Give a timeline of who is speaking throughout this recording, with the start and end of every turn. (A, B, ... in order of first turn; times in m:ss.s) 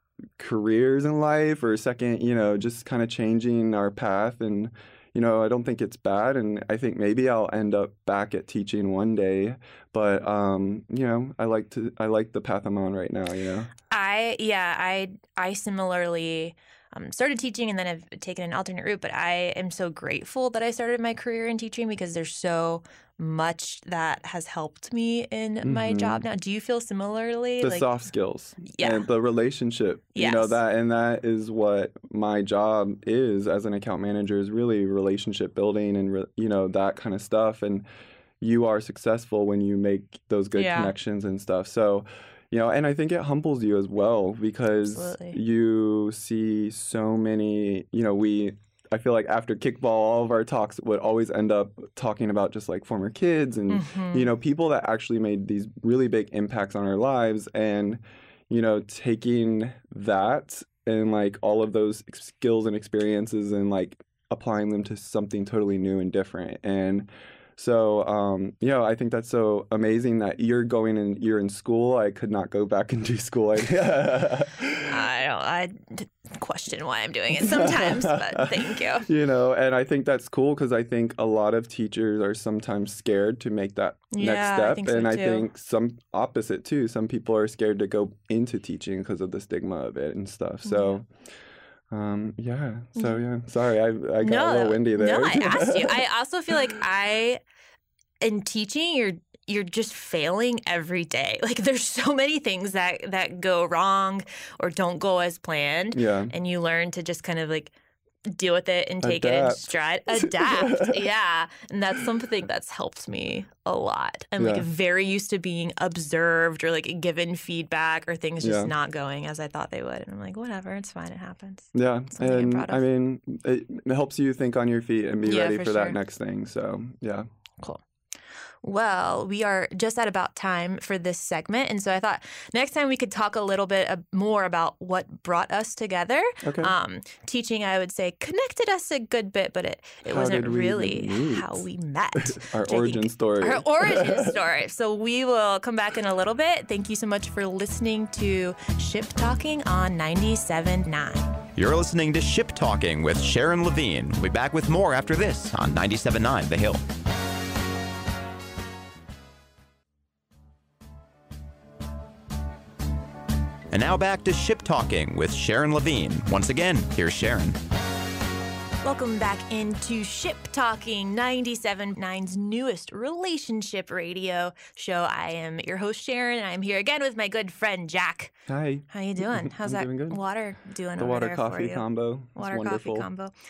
0:00.4-0:13.7 A
0:13.9-0:27.9 B
0:25.6-0:26.2 A
0:27.6-0:37.9 A
0:28.7-0:29.1 B
0:30.2-0:30.6 B
0:38.4-1:15.0 A
0:40.6-0:40.9 B
0:44.8-0:45.4 B
0:53.7-0:54.3 B
1:14.8-1:19.1 B
1:17.3-1:31.1 A
1:24.1-1:25.5 B
1:30.6-1:31.0 B
1:31.9-1:36.0 A
1:33.0-1:33.2 B
1:34.2-1:37.4 B
1:38.2-1:47.7 B
1:45.9-1:46.3 A
1:48.3-2:02.8 B
1:49.0-1:51.1 A
1:54.4-1:54.7 A
1:58.4-1:58.7 A
2:01.7-2:07.3 A
2:05.2-2:06.0 B
2:08.6-2:31.4 B
2:16.4-2:16.8 A
2:20.1-2:21.7 A
2:22.2-2:24.4 A
2:31.6-2:36.8 C
2:43.7-2:47.6 C
2:48.8-2:58.4 B
2:58.5-3:00.2 A
2:58.9-3:03.3 B
3:01.0-3:03.1 A